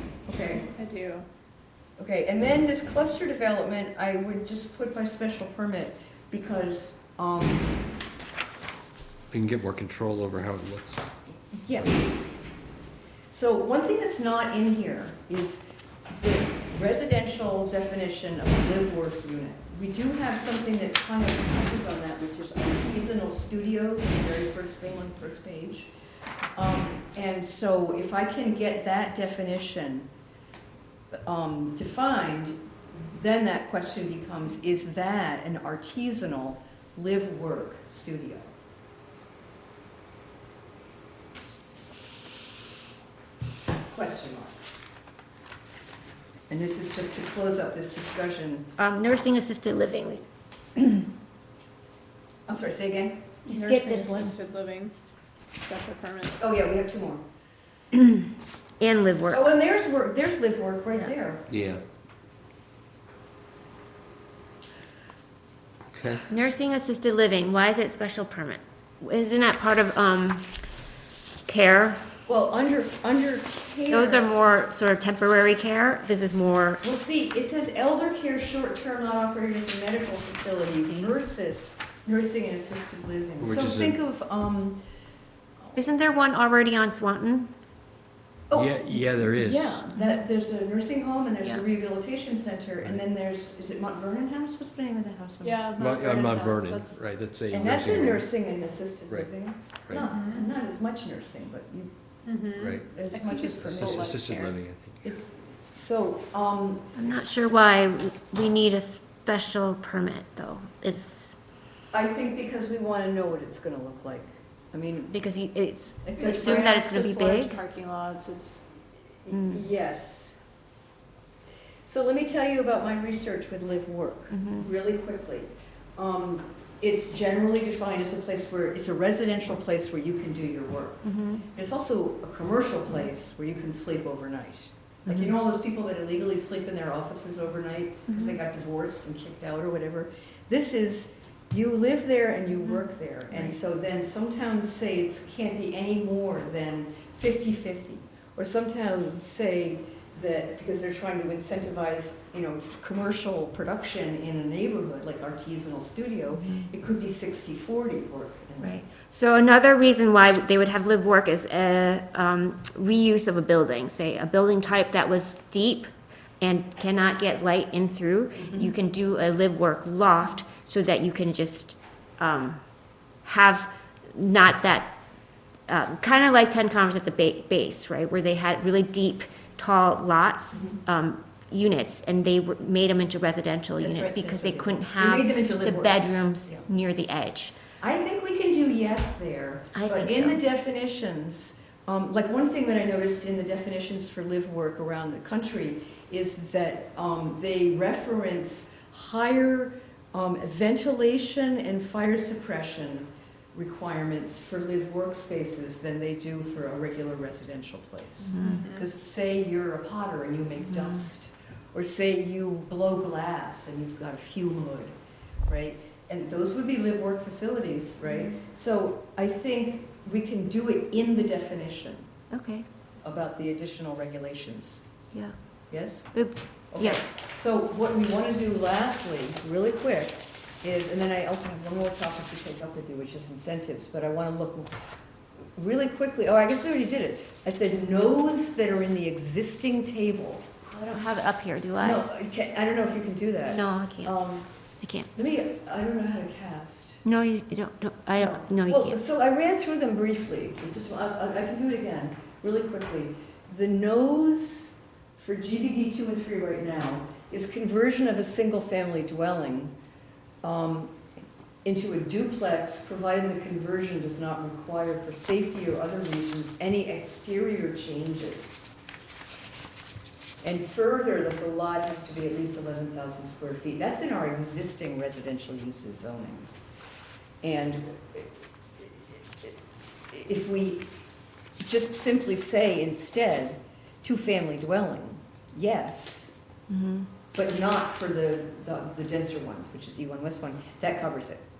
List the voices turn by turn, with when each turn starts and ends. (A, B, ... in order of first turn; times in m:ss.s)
0:00.2-0:00.6 A
0:00.6-0:01.2 B
0:02.0-0:07.7 A
0:09.3-0:11.1 C
0:11.5-0:12.1 A
0:13.3-0:25.9 A
0:26.6-0:30.1 A
0:31.1-0:38.5 A
0:43.9-0:44.5 A
0:46.5-0:48.7 A
0:48.8-0:50.2 D
0:52.5-0:53.4 A
0:53.4-0:54.4 D
0:53.5-0:54.9 B
0:55.5-0:56.4 B
0:56.4-0:57.2 A
0:57.9-0:58.2 D
0:58.8-0:59.4 D
0:59.3-1:01.5 A
1:01.5-1:01.8 C
1:05.9-1:06.2 C
1:06.3-1:10.5 D
1:11.4-1:12.1 D
1:12.3-1:14.3 A
1:13.9-1:16.8 D
1:16.8-1:24.8 A
1:20.8-1:21.1 D
1:23.4-1:24.0 C
1:25.8-1:27.5 D
1:28.5-1:35.6 A
1:28.5-1:29.8 C
1:35.4-1:37.0 B
1:35.8-1:38.3 C
1:37.5-1:41.9 A
1:40.0-1:40.5 B
1:42.2-1:44.5 B
1:42.6-1:42.9 C
1:42.7-1:44.1 A
1:43.5-1:45.2 C
1:45.0-1:46.9 A
1:46.9-1:51.4 D
1:51.9-1:55.1 A
1:55.1-1:57.6 D
1:56.0-1:56.8 A
1:56.2-1:58.6 B
1:59.2-2:00.3 A
1:59.3-1:59.6 D
2:01.8-2:38.8 A
2:04.3-2:04.7 D
2:11.0-2:11.4 D
2:18.1-2:18.4 D
2:36.3-2:36.7 D
2:38.6-2:45.9 D
2:46.4-2:52.6 D
2:48.4-2:48.7 A
2:53.2-2:55.0 D
2:55.7-3:07.5 D
3:00.5-3:00.8 A
3:03.8-3:06.6 A
3:07.8-3:34.9 A
3:09.7-3:10.4 D
3:28.2-3:28.7 D
3:28.4-3:28.9 B
3:30.7-3:31.0 D
3:35.5-3:42.1 A
3:38.0-3:38.4 D
3:42.3-3:42.6 D
3:43.0-3:44.9 A
3:45.7-3:46.2 A
3:46.1-3:47.0 D
3:46.7-3:54.8 A
3:55.6-4:00.6 A
4:00.7-4:02.0 D
4:01.8-4:04.5 A
4:03.4-4:04.2 D
4:04.8-4:05.1 D
4:05.1-4:07.0 A
4:07.0-4:09.0 D
4:08.2-4:19.7 A
4:20.4-4:20.9 A
4:21.6-4:28.7 A
4:30.4-4:36.5 A
4:37.4-4:39.5 A
4:40.1-4:40.9 A
4:41.6-4:46.3 A
4:46.7-4:47.1 D
4:47.3-4:51.4 A